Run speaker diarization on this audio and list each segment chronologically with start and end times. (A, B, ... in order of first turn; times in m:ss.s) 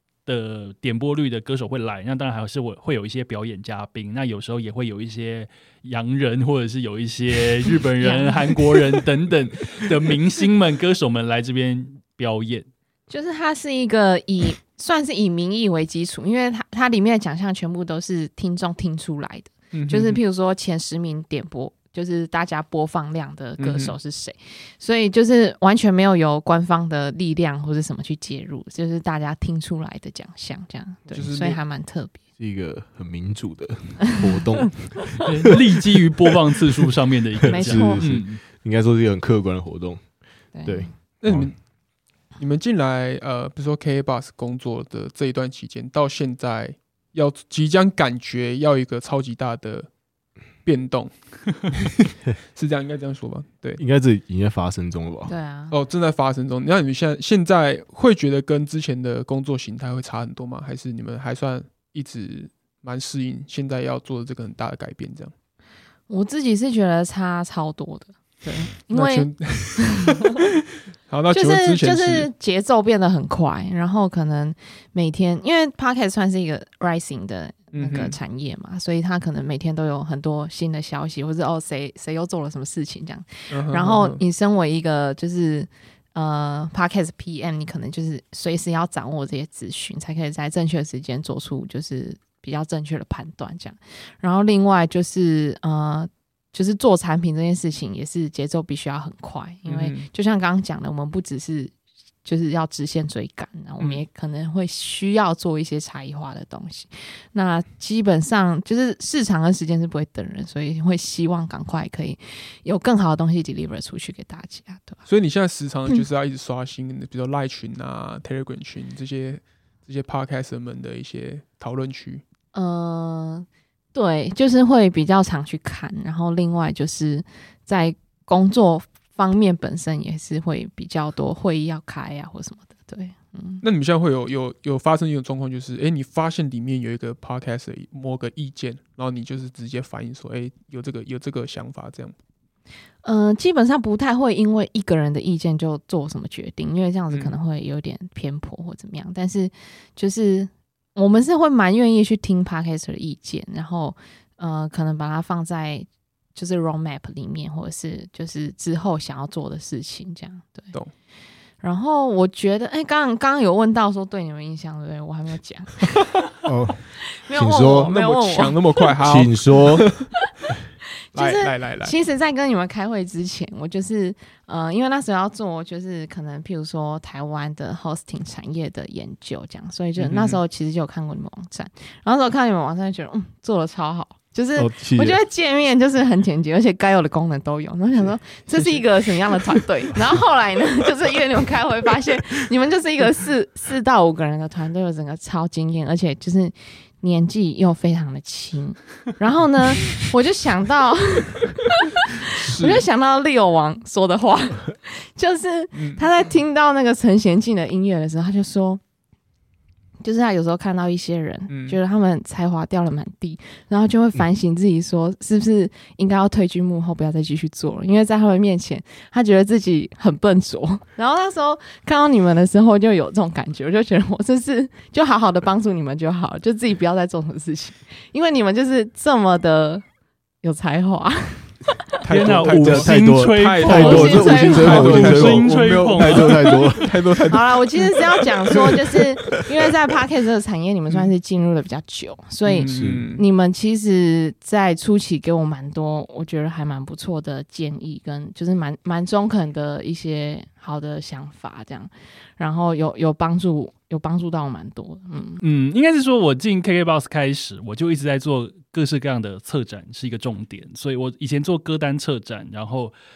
0:00.3-0:12.7 A
0:08.0-0:08.6 B
0:13.1-0:32.2 B
0:19.7-0:20.2 C
0:23.6-0:24.0 C
0:31.1-0:31.6 C
0:32.4-0:35.2 D
0:35.2-0:38.4 A
0:37.4-0:40.0 D
0:37.5-0:38.0 B
0:40.5-0:40.9 B
0:40.7-0:41.5 D
0:41.2-0:41.6 C
0:42.4-0:49.9 C
0:50.6-0:51.7 C
0:52.6-0:53.8 C
0:53.8-0:55.3 D
0:55.3-0:55.8 B
0:55.7-1:05.3 C
1:06.1-1:10.2 B
1:08.9-1:10.6 C
1:11.1-1:12.3 C
1:11.3-1:41.7 B
1:17.7-1:18.2 C
1:23.5-1:24.2 C
1:39.7-1:40.1 C
1:42.2-1:55.0 B
1:55.1-2:02.2 C
2:02.5-2:13.6 B
2:13.6-2:22.1 C
2:23.0-2:40.7 B
2:41.6-2:46.0 B
2:46.4-2:46.8 D
2:47.2-2:48.6 B
2:47.3-2:47.9 D
2:47.8-2:50.1 C
2:49.0-2:49.8 D
2:51.1-3:28.8 B
2:51.2-2:52.0 C
3:00.0-3:00.4 C
3:04.6-3:05.2 D
3:22.4-3:22.8 C
3:25.8-3:26.1 C
3:30.0-3:49.8 B
3:31.5-3:31.8 C
3:50.4-3:51.9 B
3:52.0-3:57.9 C
3:52.1-3:56.3 A
3:52.5-3:57.0 D
3:53.6-3:55.2 B
3:57.3-4:15.4 B
4:02.5-4:03.2 C
4:02.6-4:03.0 D
4:15.4-4:22.9 A